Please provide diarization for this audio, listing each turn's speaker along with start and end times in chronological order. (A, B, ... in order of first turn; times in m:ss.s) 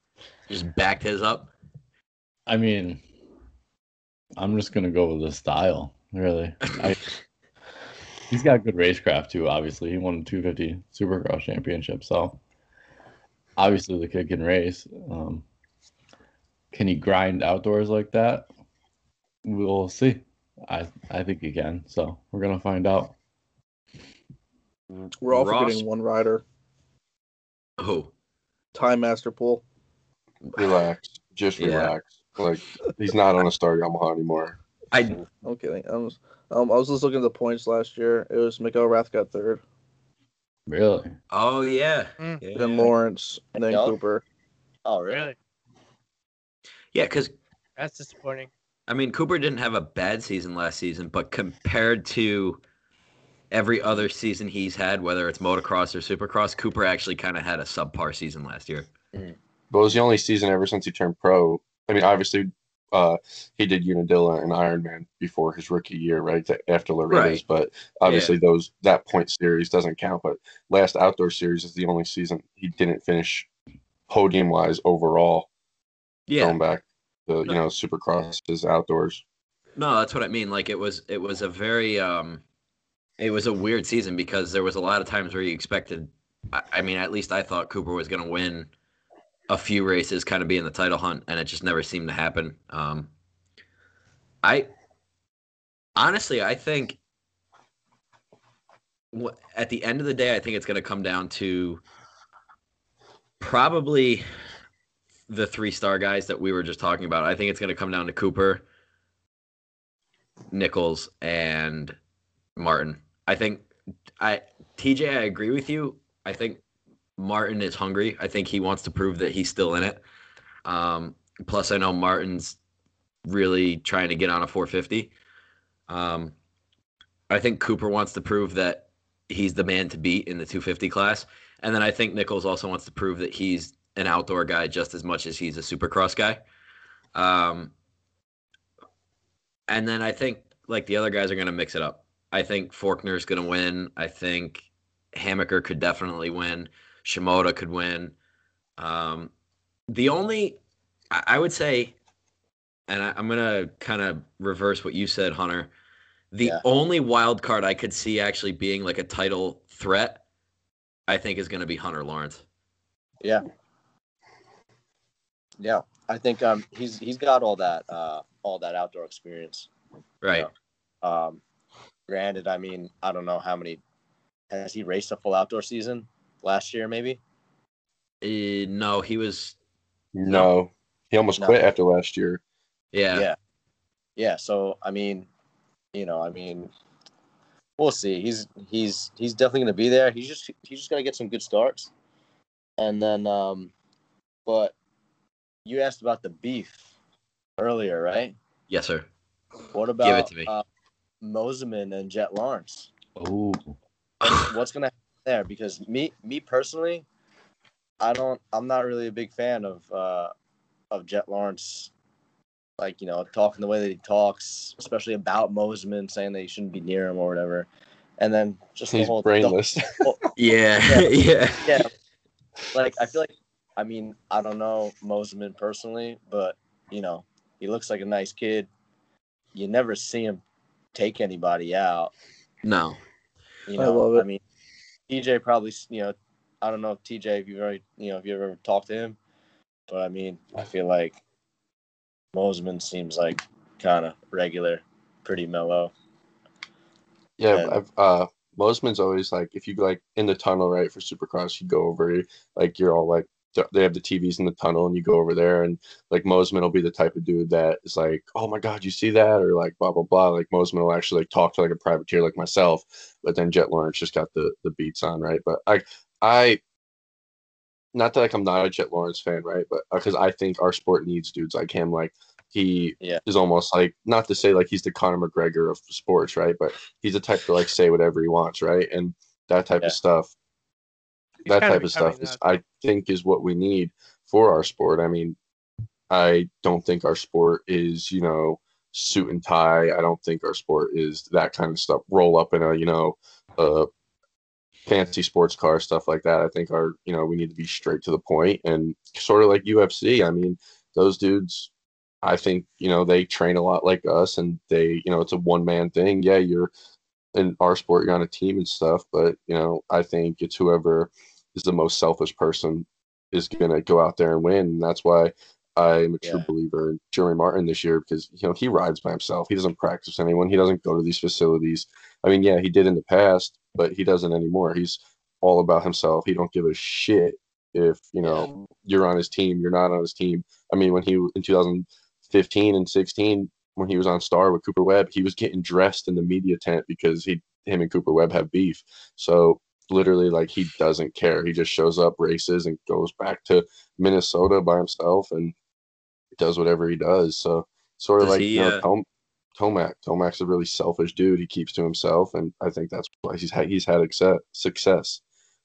0:00.5-0:01.5 A
0:02.5-0:03.0 B
0:04.4-0:07.0 B
0:08.3-0:12.4 B
0:13.6-0:15.4 B
0:16.7-0:18.5 B
0:19.4-0:23.2 B
0:25.0-0:25.8 A
0:25.2-0:26.4 C
0:27.8-0:28.1 A
0:28.7-0:29.6 C
0:30.6-0:34.6 D
0:31.6-0:31.9 A
0:34.9-0:35.2 A
0:35.4-0:39.6 C
0:40.7-0:41.2 B
0:41.3-0:42.9 A
0:42.5-0:44.2 C
0:43.7-0:44.0 E
0:44.8-0:45.3 E
0:45.1-0:45.4 F
0:46.9-0:47.3 A
0:47.8-0:48.5 F
0:48.9-0:52.6 A
0:53.5-0:58.9 A
0:59.7-1:13.5 D
1:07.1-1:07.4 A
1:08.0-1:08.3 A
1:14.1-1:15.5 D
1:16.3-1:16.6 A
1:16.4-1:19.2 D
1:19.8-1:22.4 A
1:23.2-1:28.7 A
1:29.5-1:33.1 A
1:34.4-1:34.7 A
1:36.0-1:37.0 A
1:39.1-1:41.8 A
1:43.4-1:44.2 A
1:45.3-1:48.6 A
1:50.5-1:52.0 A
1:52.6-1:53.6 A
1:54.2-1:56.6 A
1:57.2-2:00.0 A
2:00.6-2:02.6 A
2:03.2-2:05.1 A
2:05.9-2:06.3 A
2:07.3-2:16.4 A
2:17.1-2:17.7 A
2:19.7-2:28.1 A
2:28.8-2:29.3 A
2:29.9-2:30.6 A
2:31.1-2:31.9 A
2:32.9-2:35.7 A
2:36.3-2:40.2 A
2:41.1-2:42.4 A
2:45.6-2:49.7 E
2:50.2-2:50.5 A
2:51.0-2:51.4 E
2:52.1-2:53.8 E
2:54.5-2:57.2 E
2:58.2-2:59.6 A
3:00.1-3:02.4 D
3:02.9-3:03.2 A
3:04.2-3:05.3 E
3:05.9-3:06.7 E
3:07.8-3:11.9 E
3:12.8-3:13.7 E
3:14.4-3:14.7 E
3:15.6-3:16.8 E
3:17.6-3:18.4 E
3:18.7-3:19.1 A
3:19.7-3:20.6 E
3:20.0-3:20.5 A
3:21.2-3:22.9 E
3:23.2-3:23.8 B
3:24.2-3:24.5 A
3:24.2-3:27.0 E
3:28.0-3:30.3 E
3:30.9-3:31.9 E
3:32.8-3:37.7 E
3:38.2-3:40.2 E
3:38.9-3:40.1 D
3:40.4-3:41.8 A
3:42.7-3:48.7 E
3:49.5-3:50.4 E
3:50.9-3:52.1 E
3:52.6-3:53.0 A
3:53.7-3:54.4 E
3:53.8-3:54.3 C
3:55.1-3:59.2 E
3:59.9-4:01.2 E
4:02.3-4:05.9 E
4:07.4-4:26.6 D
4:27.9-4:40.3 D
4:41.4-4:42.5 F
4:41.4-4:45.4 D
4:46.1-4:53.9 D
4:54.8-5:01.7 D
5:02.2-5:06.7 D
5:07.3-5:45.5 D
5:16.2-5:16.5 E
5:28.2-5:28.5 E
5:46.4-5:55.2 D
5:48.2-5:48.8 A